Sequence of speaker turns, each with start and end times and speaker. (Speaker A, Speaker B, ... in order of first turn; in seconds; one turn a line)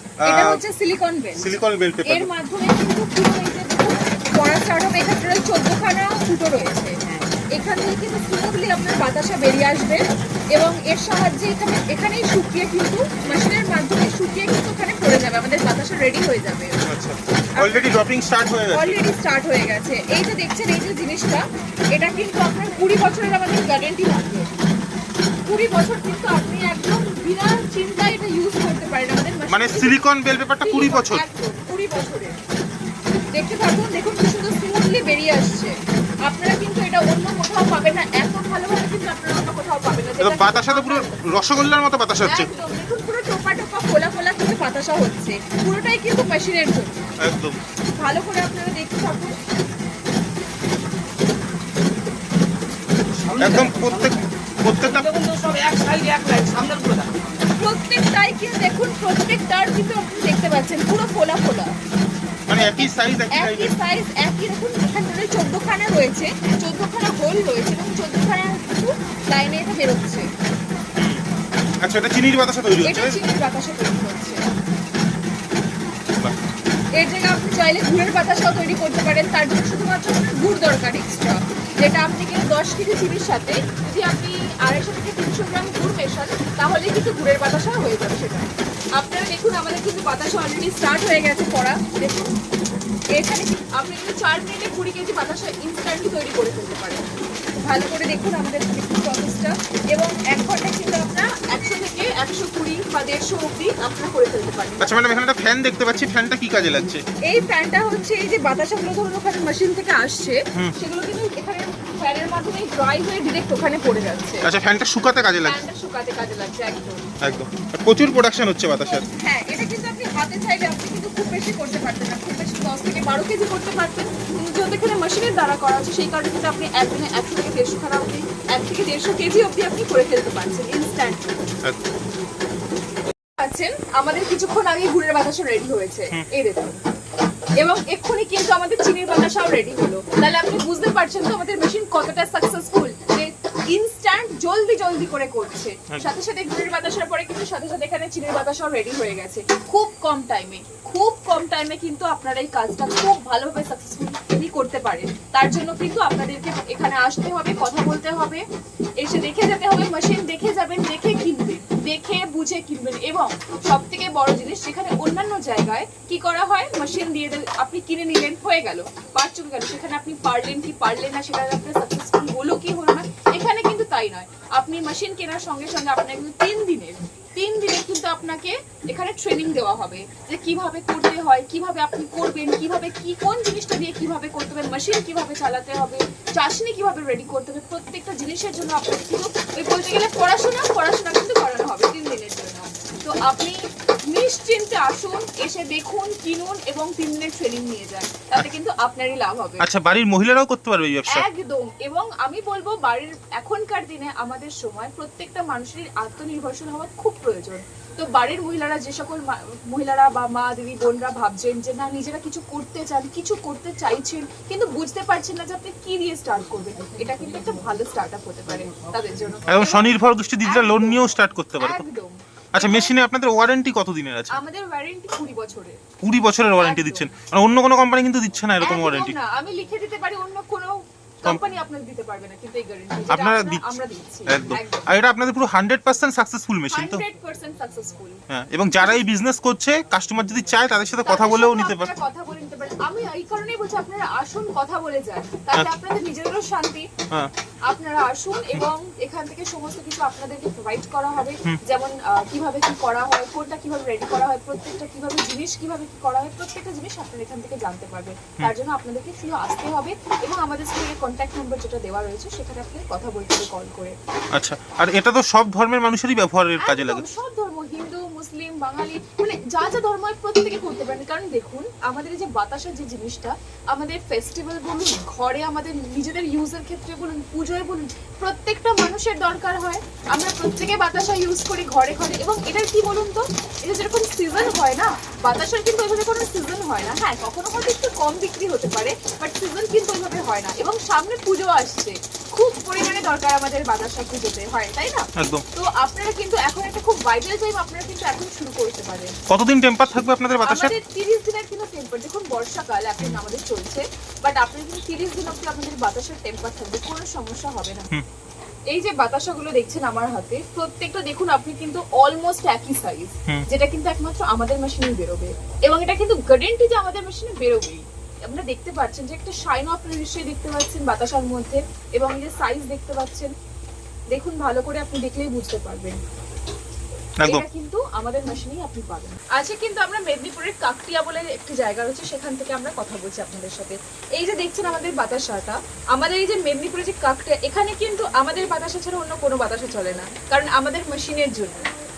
Speaker A: 0.2-0.6
Speaker B: 0.2-1.5
Speaker A: 1.4-2.3
Speaker B: 2.0-7.0
Speaker B: 7.5-10.0
Speaker B: 10.5-16.7
Speaker A: 16.9-19.0
Speaker B: 17.6-18.0
Speaker B: 18.7-24.4
Speaker B: 25.4-29.9
Speaker A: 29.5-31.2
Speaker B: 30.6-32.4
Speaker B: 33.3-41.3
Speaker A: 40.2-42.5
Speaker B: 42.2-47.1
Speaker A: 47.2-47.6
Speaker B: 48.0-49.3
Speaker C: 53.3-54.1
Speaker A: 53.4-55.1
Speaker C: 54.8-57.2
Speaker B: 57.5-61.7
Speaker A: 62.5-63.7
Speaker B: 62.5-70.3
Speaker A: 71.0-71.2
Speaker A: 71.8-73.2
Speaker B: 72.8-74.4
Speaker B: 77.0-92.3
Speaker B: 93.1-97.0
Speaker B: 97.6-105.2
Speaker A: 104.8-107.0
Speaker B: 107.2-114.4
Speaker A: 114.4-115.6
Speaker B: 115.4-117.0
Speaker A: 117.2-119.0
Speaker B: 118.8-131.3
Speaker B: 133.4-136.8
Speaker B: 137.6-158.4
Speaker B: 159.0-193.6
Speaker B: 194.1-199.6
Speaker A: 199.6-201.3
Speaker B: 201.1-221.0
Speaker A: 219.5-221.8
Speaker B: 221.6-222.9
Speaker A: 222.5-224.4
Speaker B: 224.3-225.8
Speaker A: 226.0-229.2
Speaker B: 226.6-227.1
Speaker B: 228.6-234.9
Speaker A: 233.1-233.7
Speaker A: 234.3-237.0
Speaker B: 236.7-238.2
Speaker A: 238.3-241.9
Speaker B: 238.8-239.0
Speaker B: 241.0-246.9
Speaker B: 247.7-264.0
Speaker A: 264.3-267.0
Speaker B: 266.6-299.2
Speaker A: 295.2-295.4
Speaker A: 299.3-300.7
Speaker B: 300.4-307.9
Speaker B: 308.7-323.3
Speaker B: 324.1-326.0
Speaker B: 327.2-341.7